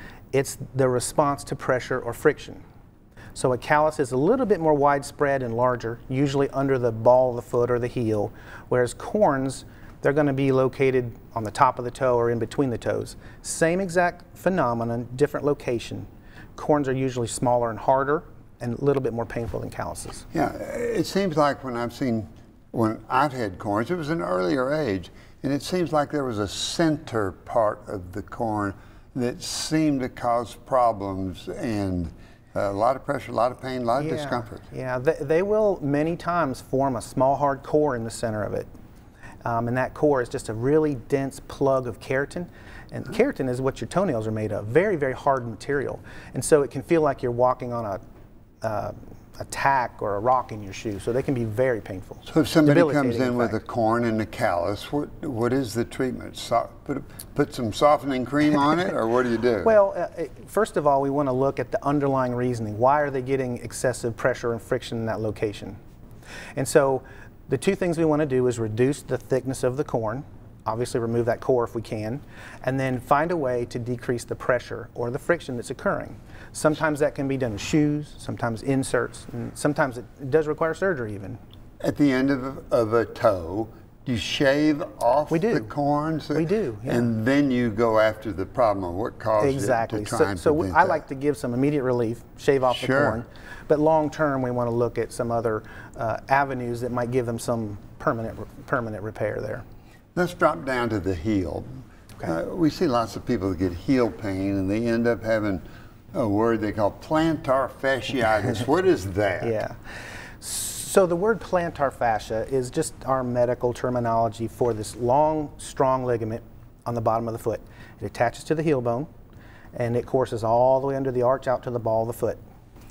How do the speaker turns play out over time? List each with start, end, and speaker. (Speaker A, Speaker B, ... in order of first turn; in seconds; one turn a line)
Speaker A: 0.3-2.6
Speaker A: 3.4-20.3
Speaker B: 20.3-34.6
Speaker A: 34.0-38.7
Speaker A: 39.4-48.0
Speaker A: 48.6-53.6
Speaker B: 52.3-59.7
Speaker A: 59.6-65.8
Speaker A: 66.6-81.4
Speaker B: 81.8-91.0
Speaker A: 85.3-85.7
Speaker A: 86.3-87.1
Speaker A: 89.4-99.6
Speaker B: 92.7-93.2
Speaker B: 100.2-101.7
Speaker B: 102.2-109.6
Speaker A: 109.4-109.8
Speaker A: 110.4-119.1
Speaker A: 119.7-122.4